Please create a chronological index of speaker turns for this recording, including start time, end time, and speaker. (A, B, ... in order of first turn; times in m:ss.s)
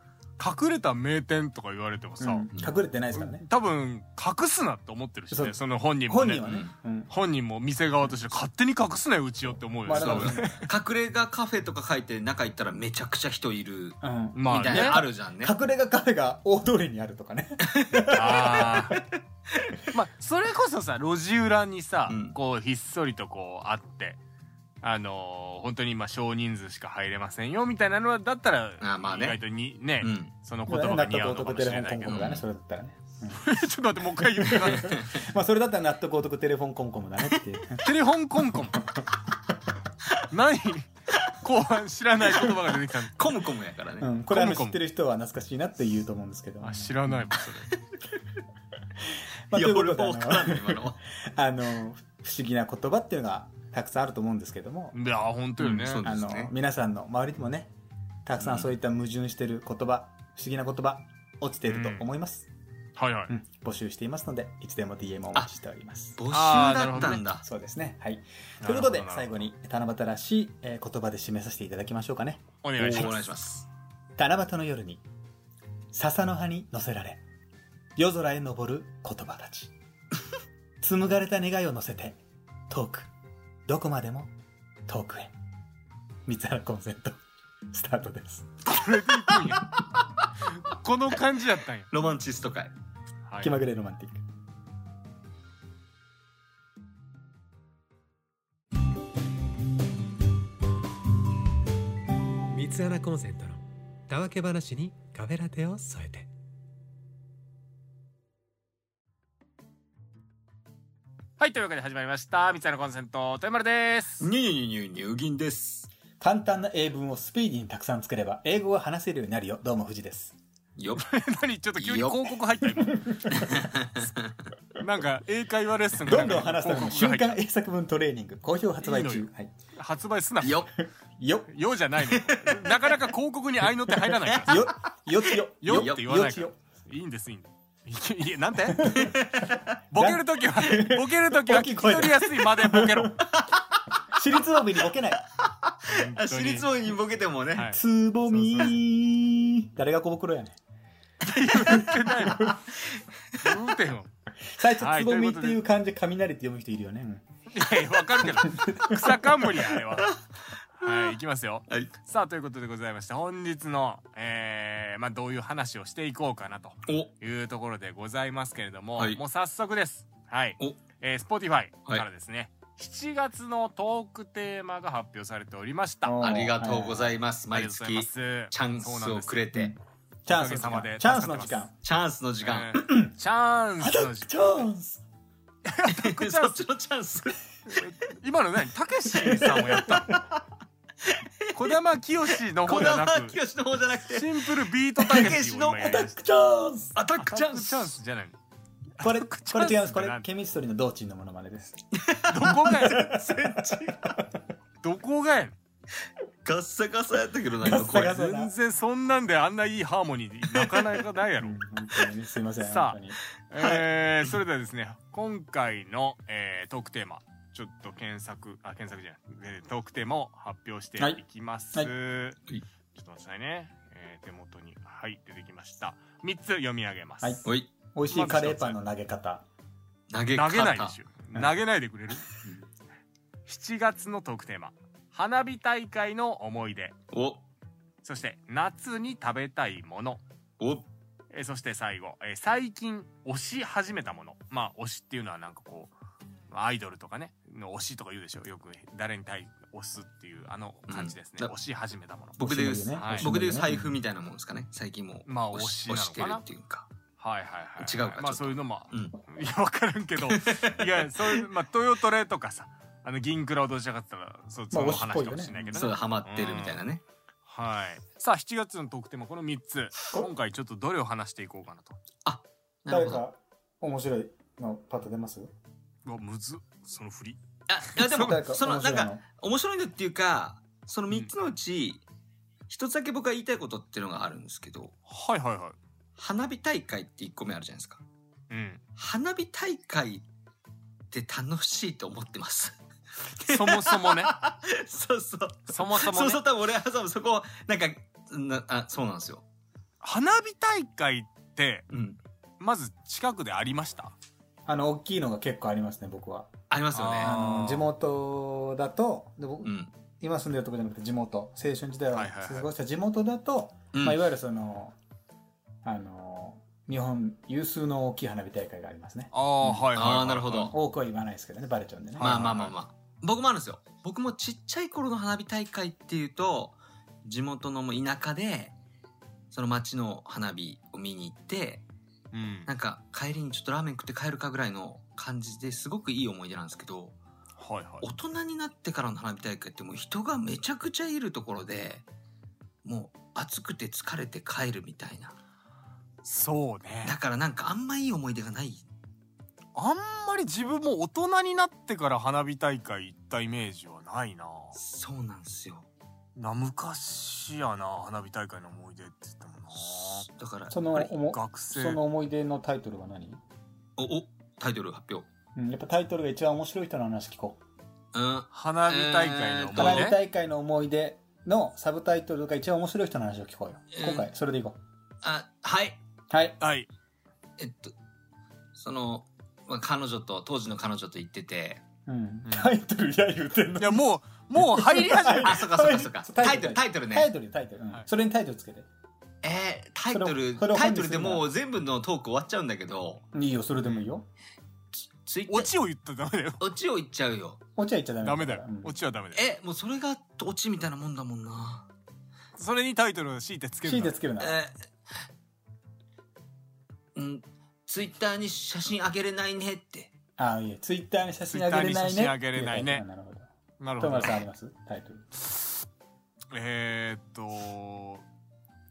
0:00.4-0:02.5 A
0:02.2-0:03.4 B
0:03.1-0:06.4 A
0:05.3-0:07.1 B
0:06.4-0:06.7 C
0:07.1-0:10.7 A
0:09.8-0:10.6 B
0:09.9-0:15.5 C
0:14.0-0:19.0 B
0:14.3-0:15.0 A
0:17.7-0:18.2 C
0:18.1-0:19.0 A
0:19.9-0:24.2 A
0:22.1-0:22.4 C
0:24.8-0:32.3 A
0:28.8-0:29.4 C
0:30.0-0:30.3 C
0:30.7-0:33.4 B
0:32.1-0:32.4 C
0:33.3-0:35.0 A
0:34.4-0:37.9 B
0:34.7-0:35.0 C
0:37.8-0:38.9 A
0:40.3-0:43.2 A
0:43.2-0:44.1 C
0:44.0-0:47.1 B
0:44.3-0:44.8 A
0:46.6-0:47.7 A
0:49.5-0:54.9 B
0:49.5-0:51.0 C
0:54.9-0:56.0 A
0:55.6-0:57.7 B
0:55.7-0:56.5 C
0:58.2-1:02.5 B
0:58.4-0:58.7 C
1:01.7-1:02.1 A
1:03.0-1:03.3 A
1:03.3-1:06.2 B
1:06.2-1:07.4 C
1:06.3-1:07.2 A
1:07.0-1:12.4 B
1:08.6-1:09.4 A
1:12.6-1:13.4 A
1:12.8-1:13.6 C
1:14.2-1:15.0 B
1:15.9-1:17.2 B
1:18.0-1:19.7 B
1:20.8-1:23.1 B
1:23.7-1:24.3 B
1:24.8-1:25.3 B
1:26.2-1:27.2 B
1:27.7-1:28.6 B
1:28.6-1:29.7 A
1:30.5-1:31.9 A
1:31.9-1:32.7 C
1:33.3-1:33.6 A
1:33.4-1:34.2 B
1:42.5-1:46.3 D
1:51.4-1:54.3 A
1:54.2-1:55.9 C
1:56.2-2:00.4 B
2:00.8-2:01.1 C
2:01.0-2:03.3 A
2:01.8-2:02.3 C
2:02.9-2:03.5 B
2:03.3-2:04.3 C
2:04.8-2:07.4 A
2:06.0-2:09.5 B
2:08.8-2:10.7 A
2:10.4-2:10.7 C
2:11.2-2:11.5 B
2:11.5-2:14.6 A
2:12.1-2:12.9 C
2:14.3-2:14.7 C
2:14.4-2:16.6 B
2:15.6-2:19.0 A
2:15.7-2:16.0 C
2:18.7-2:19.2 B
2:19.0-2:19.6 C
2:19.9-2:23.2 A
2:19.9-2:23.1 B
2:23.3-2:23.6 C
2:24.1-2:25.2 B
2:25.4-2:27.7 C
2:25.9-2:26.7 A
2:27.7-2:30.6 B
2:28.3-2:28.8 A
2:31.2-2:32.6 A
2:31.7-2:32.5 B
2:33.4-2:34.1 A
2:34.5-2:37.2 B
2:34.8-2:35.6 A
2:37.5-2:40.1 A
2:38.3-2:39.3 B
2:40.8-2:56.2 A
2:46.9-2:47.1 C
2:56.0-2:57.1 B
2:56.2-2:59.7 C
2:57.5-2:59.5 A
2:59.5-3:01.7 B
3:00.3-3:01.6 A
3:01.8-3:02.9 C
3:02.4-3:04.5 A
3:03.8-3:05.0 B
3:05.6-3:06.6 A
3:05.9-3:07.8 C
3:07.7-3:10.2 A
3:09.3-3:10.2 B
3:11.5-3:13.4 A
3:12.6-3:16.0 C
3:14.0-3:16.1 A
3:15.2-3:17.0 B
3:16.9-3:17.9 C
3:17.1-3:18.4 A
3:19.0-3:20.2 A
3:19.0-3:21.8 B
3:22.0-3:24.1 C
3:22.3-3:23.0 A
3:22.4-3:24.2 B
3:24.8-3:25.6 A
3:26.4-3:28.3 C
3:27.6-3:28.5 B
3:28.0-3:31.6 A
3:31.4-3:33.2 B
3:32.6-3:33.0 A
3:33.5-3:42.4 A
3:42.9-3:47.4 A
3:47.2-3:49.4 B
3:48.1-3:48.8 A
3:50.1-3:51.0 C
3:50.3-3:52.3 A
3:53.4-3:57.0 A
3:57.1-3:57.4 C
3:58.0-4:00.2 A
4:00.6-4:00.8 C
4:01.3-4:05.9 A
4:06.5-4:13.3 A
4:10.9-4:11.5 C
4:12.4-4:16.9 C
4:12.4-4:13.9 B
4:15.3-4:16.4 A
4:17.2-4:26.8 A
4:17.8-4:19.2 C
4:20.3-4:21.4 C
4:24.7-4:25.8 B
4:25.7-4:27.0 C
4:27.4-4:32.0 A
4:32.2-4:33.2 C
4:32.9-4:35.5 B
4:36.0-4:38.4 A
4:37.7-4:42.0 C
4:38.2-4:39.2 B
4:42.7-4:44.9 C
4:45.1-4:45.8 A
4:46.2-4:48.0 C
4:48.5-4:48.8 A
4:49.0-4:50.2 C
4:51.1-4:52.8 C
4:53.3-4:59.4 C
4:53.4-4:54.3 A
4:55.7-4:56.4 A
5:00.0-5:01.8 A
5:01.9-5:02.2 C
5:02.6-5:04.1 A
5:04.6-5:06.5 B
5:06.7-5:07.4 C
5:06.9-5:07.9 A
5:07.2-5:15.0 B
5:09.6-5:09.9 C
5:12.1-5:12.7 A
5:13.9-5:14.2 C
5:15.8-5:19.3 B
5:19.3-5:20.7 A
5:19.6-5:20.7 C
5:20.6-5:22.6 B
5:22.2-5:22.7 A
5:22.2-5:28.7 C
5:29.5-5:31.8 C
5:32.3-5:32.7 A
5:32.7-5:37.2 C
5:37.6-5:38.0 A
5:38.0-5:42.0 C
5:42.8-5:45.3 C
5:46.2-5:47.2 A
5:47.0-5:48.8 C
5:49.7-5:54.8 A
5:54.8-5:55.9 C
5:56.4-6:00.3 A
5:59.9-6:00.8 C
6:00.7-6:03.4 B
6:00.9-6:02.0 A
6:04.0-6:05.3 C
6:05.6-6:07.6 B
6:08.1-6:10.1 C
6:08.5-6:10.2 A
6:09.7-6:14.8 B
6:13.9-6:14.3 C
6:15.2-6:16.0 C
6:16.3-6:16.6 B
6:16.6-6:16.9 A
6:17.6-6:17.9 C
6:18.8-6:21.8 C
6:22.0-6:24.0 B
6:22.4-6:22.7 A
6:23.8-6:25.6 A
6:24.6-6:28.9 B
6:25.4-6:27.3 C
6:29.4-6:33.2 C
6:30.1-6:31.4 B
6:33.3-6:34.3 B
6:35.2-6:35.7 C
6:35.5-6:36.6 A
6:36.6-6:37.6 C
6:37.8-6:38.9 B
6:38.2-6:39.4 A
6:39.3-6:41.8 C
6:42.6-6:44.2 A
6:43.8-6:44.6 B
6:44.4-6:44.7 C
6:47.1-6:50.1 C
6:50.4-6:55.2 B
6:51.5-6:53.0 A
6:53.8-6:54.4 A
6:56.5-6:58.2 A